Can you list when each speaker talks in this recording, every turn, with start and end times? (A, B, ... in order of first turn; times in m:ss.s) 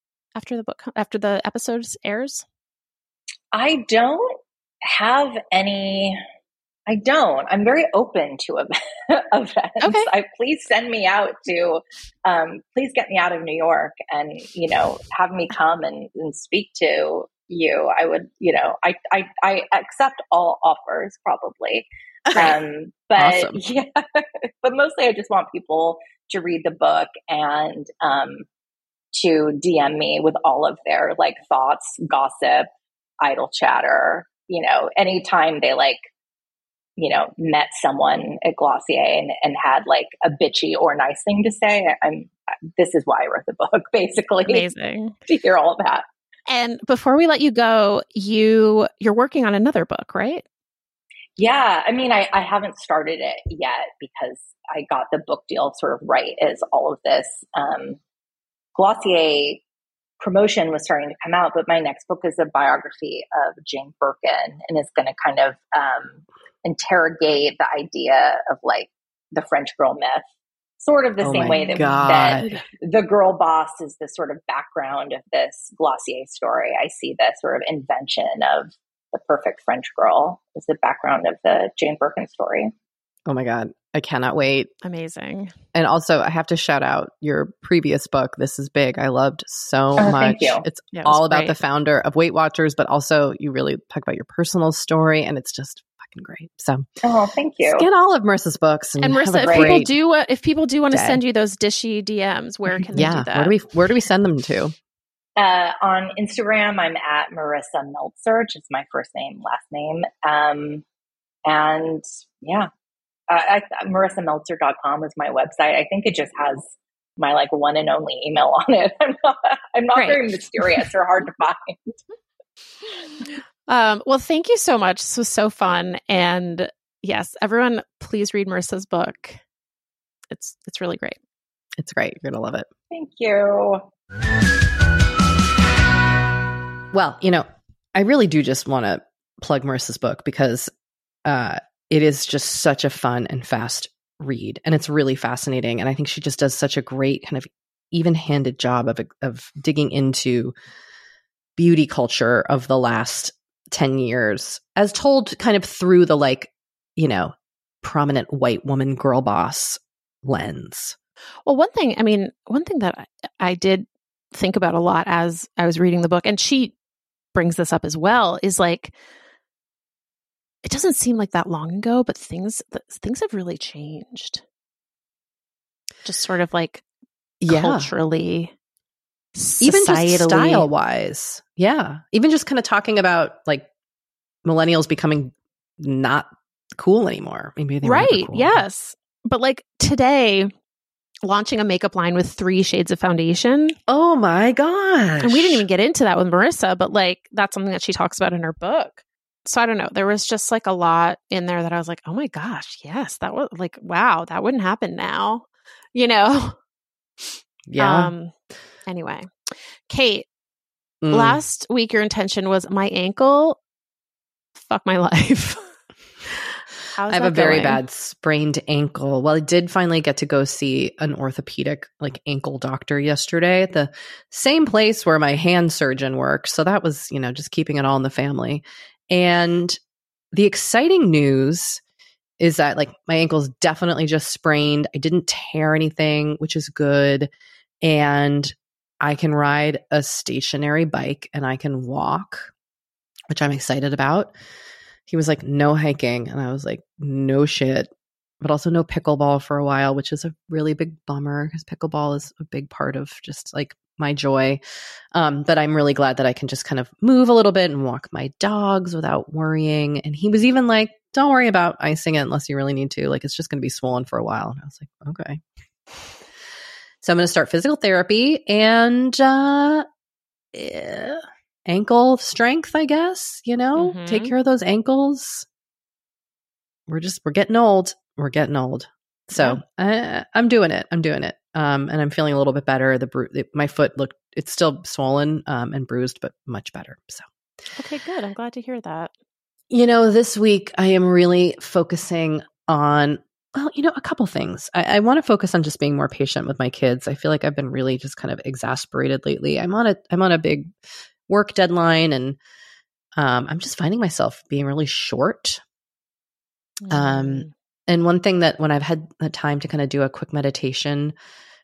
0:00.4-0:02.5 A
0:03.5-0:06.2 B
0:06.9-0:28.5 B
0:09.8-0:10.1 A
0:22.3-0:22.6 C
0:23.2-0:23.6 C
0:29.1-0:32.7 B
0:33.2-0:36.0 B
0:37.0-0:44.7 B
0:44.4-0:45.2 A
0:45.3-0:46.0 B
0:46.5-0:50.4 A
0:51.4-0:58.0 B
0:58.8-0:59.6 B
1:00.2-1:10.3 B
1:10.8-1:22.7 B
1:11.2-1:12.5 C
1:11.4-1:12.6 A
1:23.3-1:24.7 C
1:24.8-1:25.5 A
1:25.7-1:36.9 C
1:30.0-1:30.6 B
1:30.9-1:31.6 A
1:37.0-1:37.9 B
1:37.6-1:39.9 C
1:39.0-1:43.5 A
1:39.5-1:39.8 B
1:40.9-1:41.2 C
1:42.9-1:44.8 C
1:45.4-1:50.8 B
1:51.5-1:52.7 B
1:53.3-2:01.8 B
2:00.0-2:00.9 A
2:03.7-2:09.4 A
2:10.3-2:11.2 A
2:11.8-2:12.7 C
2:12.9-2:13.9 B
2:16.9-2:20.7 C
2:21.3-2:30.6 C
2:31.6-2:41.0 C
2:41.5-2:46.8 A
2:47.3-2:49.0 A
2:50.6-2:54.4 A
2:56.0-2:56.8 A
2:57.4-2:57.9 C
2:57.5-2:58.5 A
2:59.4-3:00.7 A
2:59.6-3:03.7 C
3:04.4-3:08.6 C
3:07.8-3:10.5 A
3:11.2-3:13.8 A
3:13.9-3:15.6 C
3:15.2-3:26.6 A
3:27.2-3:28.3 A
3:27.7-3:28.1 C
3:28.9-3:29.3 A
3:29.9-3:30.3 A
3:31.0-3:31.4 C
3:31.1-3:33.6 A
3:34.6-3:35.7 A
3:36.3-3:37.8 A
3:37.1-3:49.8 C
3:50.3-3:51.8 C
3:52.4-3:57.3 C
3:57.8-4:02.5 C
4:03.3-4:04.3 C
4:05.1-4:07.9 C
4:08.4-4:14.6 C
4:15.1-4:25.4 C
4:27.0-4:29.9 C
4:30.5-4:35.5 C
4:33.8-4:34.3 A
4:36.9-4:47.3 C
4:39.3-4:39.6 A
4:47.8-4:49.1 A
4:49.7-5:00.8 C
5:01.3-5:02.4 C
5:03.2-5:05.6 C
5:06.8-5:07.5 A
5:06.9-5:11.1 C